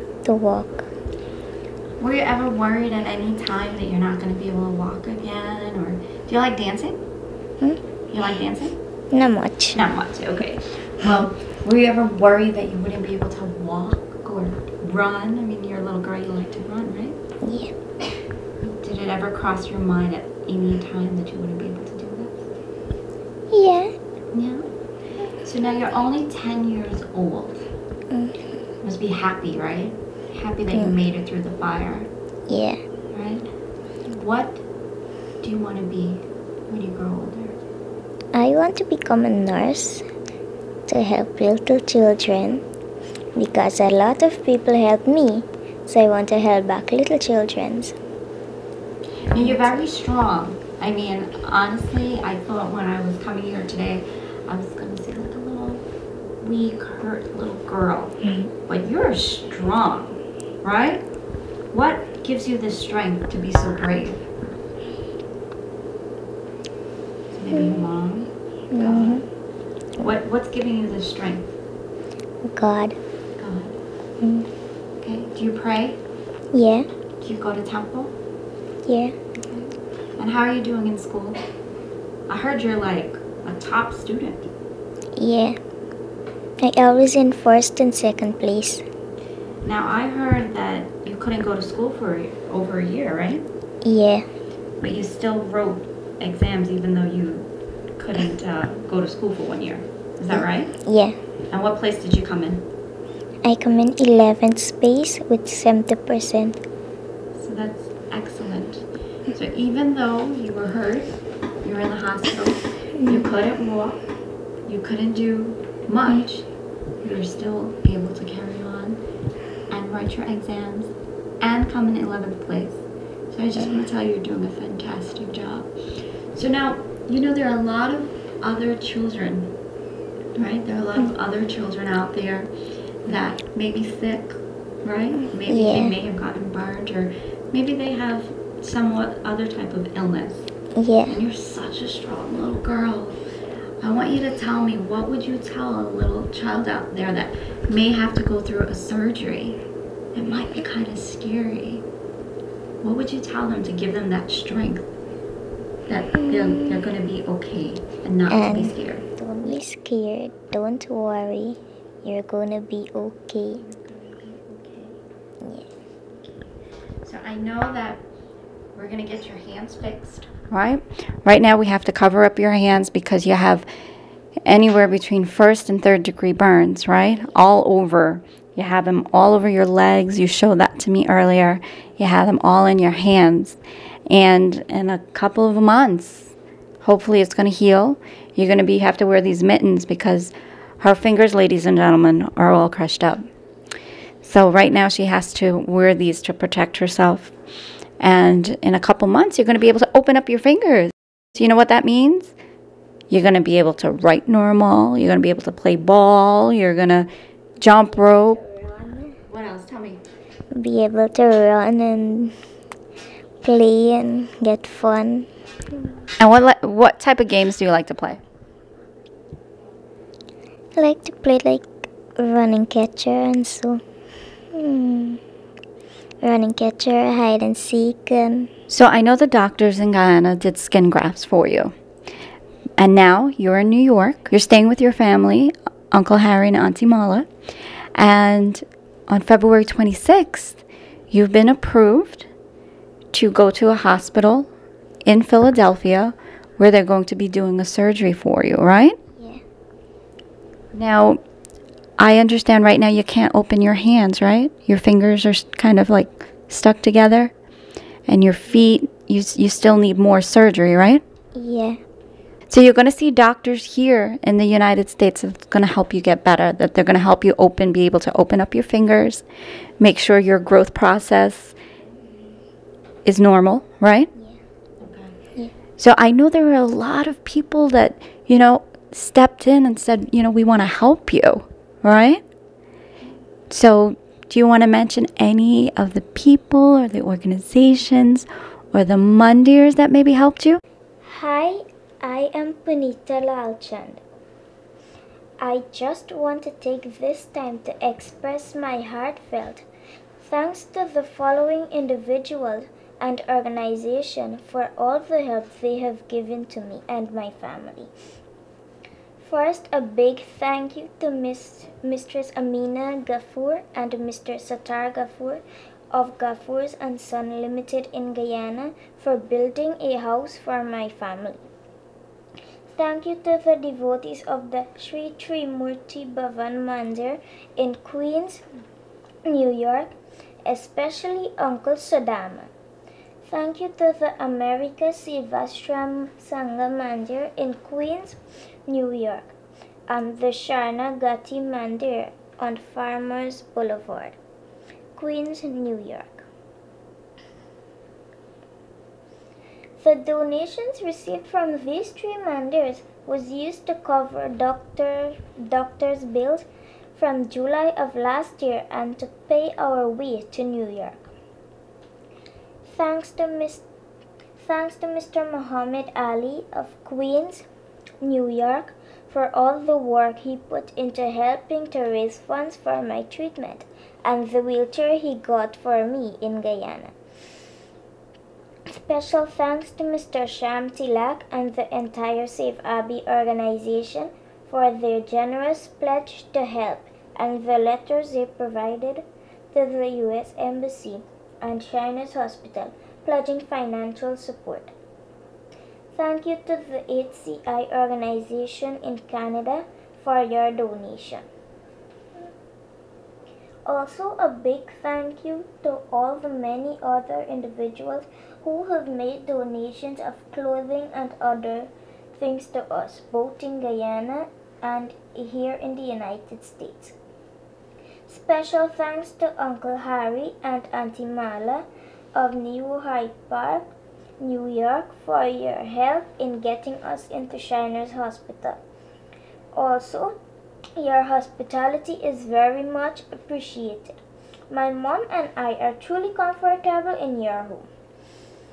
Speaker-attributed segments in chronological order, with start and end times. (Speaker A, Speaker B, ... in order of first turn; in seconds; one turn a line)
Speaker A: 0.2-0.9
Speaker B: 2.0-7.0
Speaker B: 8.1-8.8
Speaker A: 9.1-9.8
Speaker B: 9.7-17.2
Speaker A: 17.4-17.7
Speaker B: 18.6-22.4
Speaker A: 23.5-23.9
Speaker B: 24.3-24.7
Speaker B: 25.4-27.6
Speaker A: 28.1-28.4
Speaker B: 28.8-32.1
Speaker A: 32.5-32.8
Speaker B: 33.1-33.4
Speaker B: 34.1-34.6
Speaker B: 35.4-37.5
Speaker A: 38.3-40.0
Speaker A: 40.9-42.6
Speaker A: 43.4-48.0
Speaker B: 49.3-55.8
Speaker A: 49.4-49.8
Speaker B: 56.4-61.0
Speaker B: 61.7-64.2
Speaker B: 67.3-69.2
Speaker A: 67.5-67.8
Speaker A: 68.7-69.2
Speaker B: 70.0-71.6
Speaker A: 72.4-73.0
Speaker B: 73.4-73.8
Speaker A: 74.2-74.5
Speaker B: 75.0-76.0
Speaker A: 76.5-76.9
Speaker B: 77.2-78.1
Speaker A: 78.9-79.2
Speaker B: 79.4-81.4
Speaker B: 82.3-84.5
Speaker A: 85.2-85.6
Speaker A: 86.6-88.8
Speaker B: 89.6-93.4
Speaker A: 93.8-94.3
Speaker B: 94.8-100.7
Speaker A: 100.3-101.2
Speaker B: 101.5-102.7
Speaker A: 103.4-106.6
Speaker B: 107.4-111.1
Speaker B: 111.6-114.0
Speaker B: 114.7-116.5
Speaker B: 117.0-119.0
Speaker B: 119.7-125.7
Speaker B: 126.3-129.5
Speaker B: 130.4-132.5
Speaker B: 133.1-140.5
Speaker A: 135.5-135.9
Speaker A: 140.8-141.2
Speaker B: 141.1-143.2
Speaker B: 143.8-149.6
Speaker B: 150.2-151.8
Speaker B: 152.8-154.9
Speaker B: 155.9-159.1
Speaker A: 156.2-156.8
Speaker A: 158.3-163.6
Speaker B: 163.6-164.9
Speaker A: 165.4-165.7
Speaker B: 167.0-168.0
Speaker B: 168.8-173.7
Speaker B: 174.4-193.2
Speaker B: 194.2-197.3
Speaker B: 198.0-202.3
Speaker B: 203.1-207.1
Speaker B: 207.6-208.4
Speaker A: 208.0-209.2
Speaker B: 209.3-210.0
Speaker A: 210.6-212.3
Speaker A: 213.4-215.3
Speaker B: 216.2-218.2
Speaker A: 220.8-223.8
Speaker A: 224.5-225.2
Speaker A: 226.2-228.5
Speaker B: 228.7-231.7
Speaker B: 232.8-237.3
Speaker B: 238.0-242.3
Speaker B: 243.1-244.5
Speaker B: 245.1-249.0
Speaker A: 249.2-249.4
Speaker B: 250.7-251.2
Speaker B: 252.0-257.3
Speaker B: 258.1-261.0
Speaker A: 261.4-261.8
Speaker B: 262.5-269.2
Speaker B: 269.8-271.6
Speaker B: 273.1-274.1
Speaker B: 274.8-275.1
Speaker B: 275.8-282.2
Speaker B: 283.5-290.6
Speaker A: 291.0-294.0
Speaker A: 295.4-299.6
Speaker A: 300.2-307.9
Speaker A: 309.2-321.5
Speaker A: 322.7-328.4
Speaker A: 329.3-332.5
Speaker A: 333.2-339.3
Speaker A: 339.9-344.2
Speaker A: 345.0-346.3
Speaker A: 349.8-356.4
Speaker A: 357.0-361.0
Speaker A: 362.7-363.6
Speaker A: 364.4-367.5
Speaker A: 368.0-376.9
Speaker A: 378.7-394.7
Speaker A: 395.9-401.2
Speaker A: 403.7-416.9
Speaker A: 418.1-428.6
Speaker A: 429.5-430.2
Speaker A: 430.8-434.0
Speaker A: 434.5-437.7